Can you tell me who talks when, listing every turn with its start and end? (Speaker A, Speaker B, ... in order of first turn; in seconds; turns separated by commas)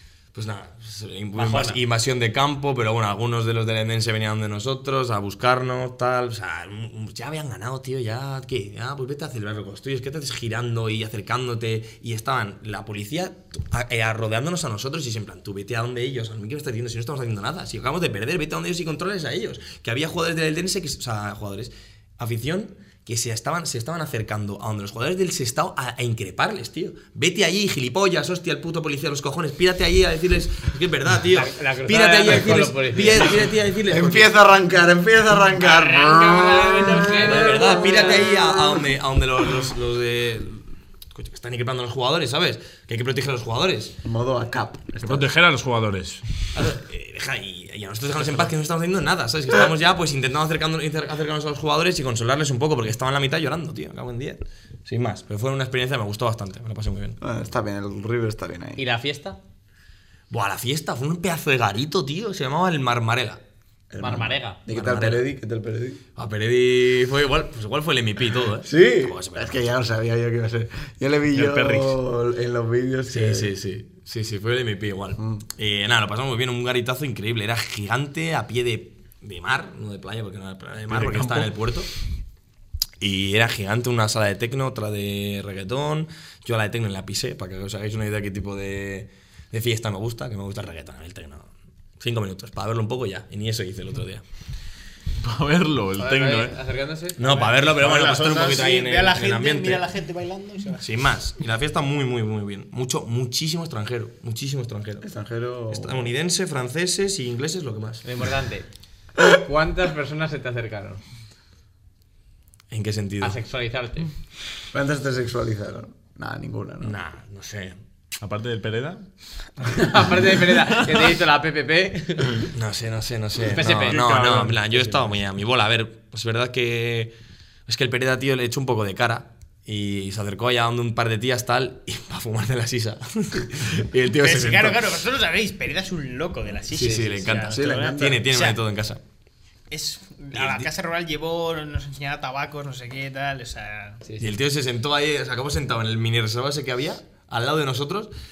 Speaker A: 0.3-34.3, Speaker B: 1.3-1.8, Speaker B: 31.3-33.4, Speaker C: 33.8-38.8, Speaker B: 35.6-38.3, Speaker A: 37.2-43.9, Speaker C: 44.0-45.3, Speaker D: 45.0-46.2, Speaker A: 46.5-57.2, Speaker C: 57.2-58.8, Speaker B: 58.8-59.4, Speaker A: 60.3-63.4, Speaker C: 63.9-66.0, Speaker B: 64.0-64.6, Speaker A: 64.7-65.2, Speaker A: 66.2-69.6, Speaker C: 68.6-73.5, Speaker D: 71.3-72.0, Speaker A: 73.1-81.9, Speaker C: 75.2-75.5, Speaker D: 80.9-81.5, Speaker A: 83.0-94.2, Speaker D: 95.2-96.6, Speaker B: 96.0-97.5, Speaker A: 97.2-99.8, Speaker E: 97.2-97.6, Speaker D: 97.7-98.6, Speaker E: 98.4-100.8, Speaker A: 100.8-105.1, Speaker C: 105.0-106.1, Speaker A: 105.7-108.0, Speaker B: 108.0-108.7, Speaker B: 109.3-111.0, Speaker A: 112.7-113.4, Speaker B: 113.2-114.1, Speaker C: 114.7-117.0, Speaker A: 116.8-117.8, Speaker D: 118.2-119.0, Speaker B: 119.6-122.5, Speaker A: 122.5-127.1, Speaker B: 123.5-124.0, Speaker D: 123.6-125.2, Speaker A: 127.7-134.8, Speaker E: 134.1-138.6, Speaker A: 136.7-139.0, Speaker C: 137.5-138.2, Speaker E: 139.7-144.0, Speaker A: 140.3-140.7, Speaker B: 144.0-144.3, Speaker A: 144.2-148.1